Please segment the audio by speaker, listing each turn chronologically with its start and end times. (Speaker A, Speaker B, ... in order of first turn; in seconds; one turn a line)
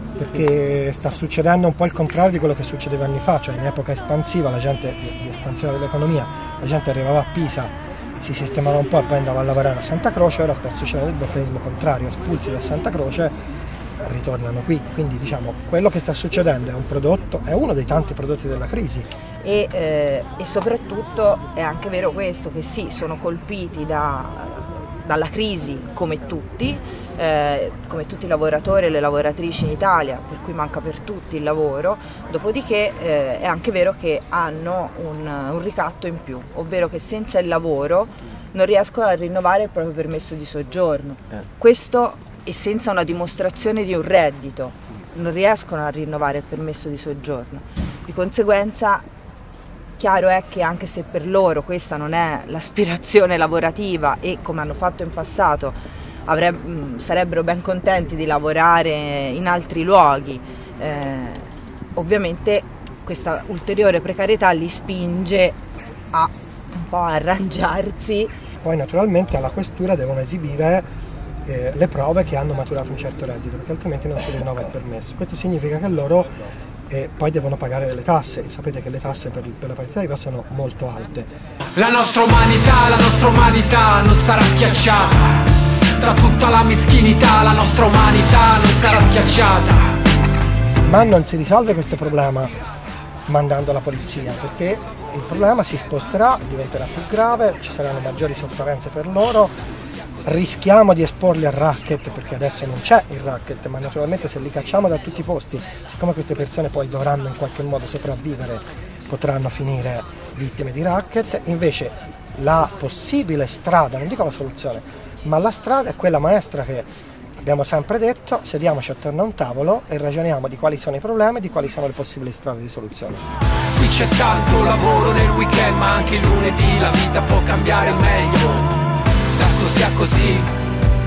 Speaker A: 0.2-13.3
Speaker A: 14.0-19.1
Speaker B: 19.4-49.0
Speaker B: 50.0-65.6
Speaker B: 66.1-68.3
Speaker A: 68.6-70.9
Speaker A: 71.5-76.3
Speaker A: 76.9-81.3
Speaker C: 81.8-85.5
Speaker C: 86.0-89.8
Speaker A: 90.8-92.5
Speaker A: 93.3-99.5
Speaker A: 100.2-116.9
Speaker A: 117.4-123.3
Speaker C: 123.8-128.7
Speaker C: 129.4-130.5